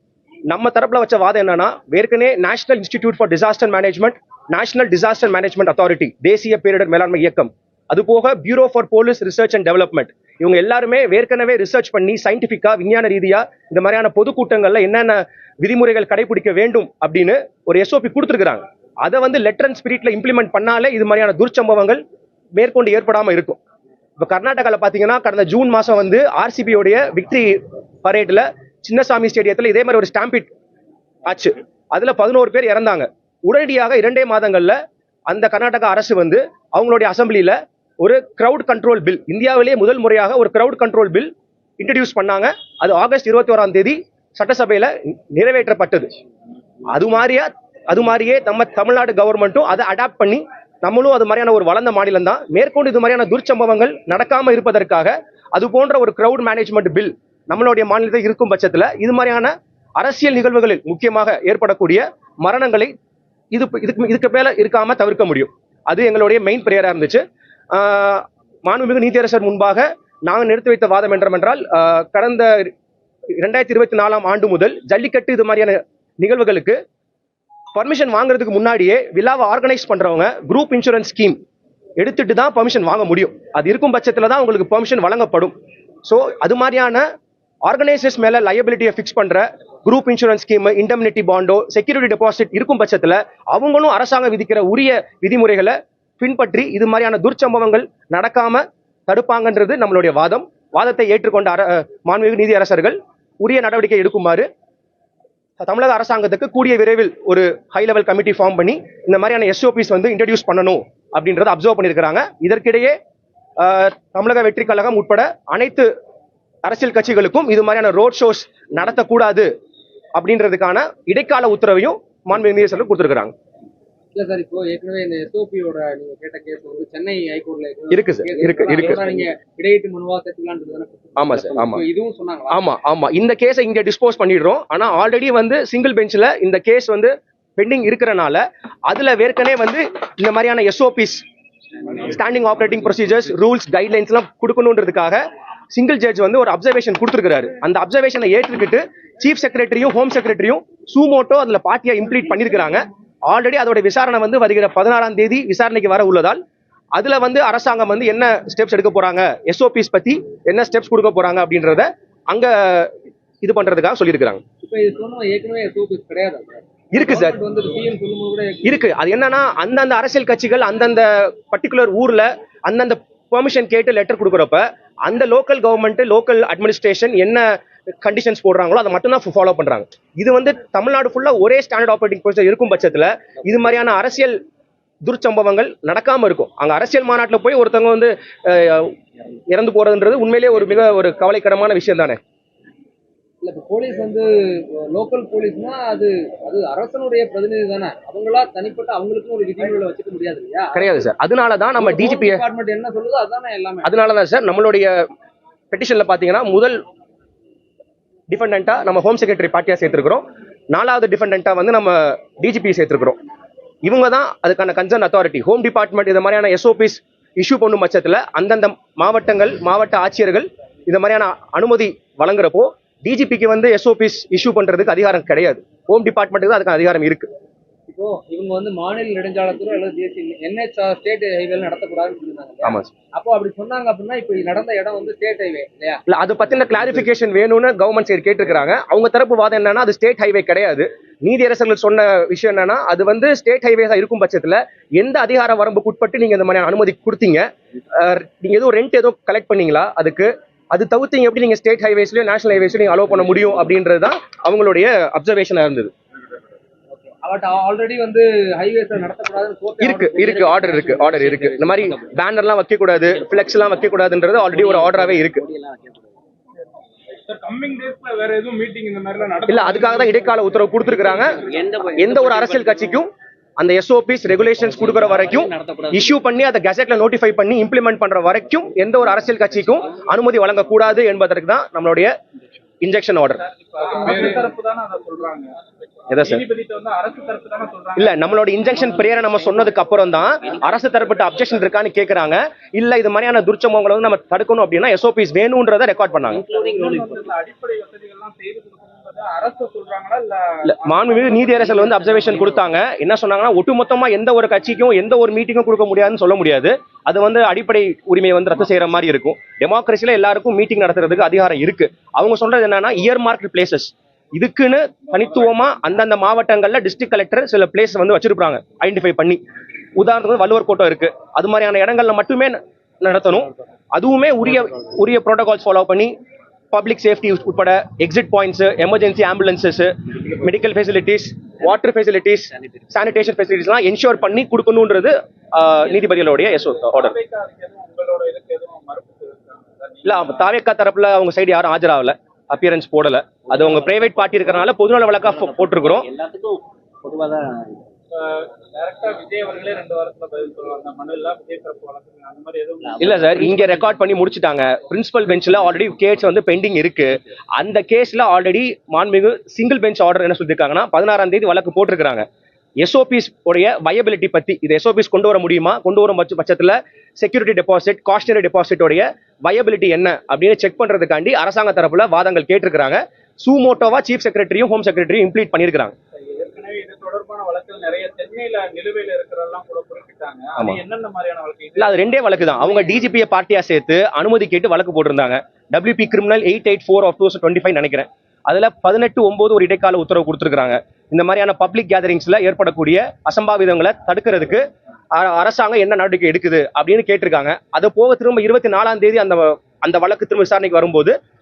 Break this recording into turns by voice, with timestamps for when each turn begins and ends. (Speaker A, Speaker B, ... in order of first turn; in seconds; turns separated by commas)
Speaker A: 0.5-22.0, Speaker A: 22.6-23.6, Speaker A: 24.2-30.5, Speaker A: 31.3-34.8, Speaker A: 35.3-46.1, Speaker A: 46.9-62.9, Speaker A: 63.5-72.7, Speaker A: 73.4-76.8, Speaker A: 77.7-81.4, Speaker A: 82.0-85.5, Speaker A: 86.0-87.0, Speaker A: 87.6-104.4, Speaker A: 105.6-113.0, Speaker A: 113.6-115.9, Speaker A: 116.6-119.5, Speaker A: 120.1-123.3, Speaker B: 124.1-132.7, Speaker A: 127.9-129.1, Speaker A: 131.2-131.8, Speaker A: 132.5-141.2, Speaker A: 141.9-145.2, Speaker A: 145.7-156.4, Speaker A: 156.9-164.4, Speaker B: 164.6-168.8, Speaker A: 166.9-167.4, Speaker A: 168.6-184.4, Speaker A: 185.0-188.9, Speaker A: 189.5-192.2, Speaker B: 193.4-201.1, Speaker A: 200.7-202.4, Speaker B: 201.8-203.9, Speaker A: 203.8-204.9, Speaker A: 205.7-206.8, Speaker A: 208.3-213.2, Speaker A: 213.8-227.3, Speaker B: 227.9-236.0, Speaker A: 232.6-232.9, Speaker A: 236.1-255.9, Speaker B: 256.9-261.4, Speaker A: 259.8-265.5, Speaker C: 261.4-261.8, Speaker C: 264.5-266.1, Speaker D: 267.2-271.4, Speaker A: 269.5-271.4, Speaker C: 271.3-272.9, Speaker A: 272.0-282.1, Speaker C: 274.7-276.0, Speaker A: 282.8-283.4, Speaker D: 283.6-288.3, Speaker B: 283.9-284.4, Speaker A: 286.1-286.4, Speaker A: 287.9-296.4, Speaker C: 296.3-297.3, Speaker D: 296.4-301.7, Speaker A: 300.7-319.4, Speaker C: 301.6-302.6, Speaker A: 319.9-326.1, Speaker A: 326.7-337.2, Speaker D: 336.8-340.4, Speaker A: 340.0-346.1, Speaker C: 345.4-347.9, Speaker D: 348.1-353.5, Speaker C: 352.8-353.9, Speaker A: 353.0-362.2, Speaker A: 362.8-375.9, Speaker D: 376.1-382.9, Speaker A: 381.8-401.1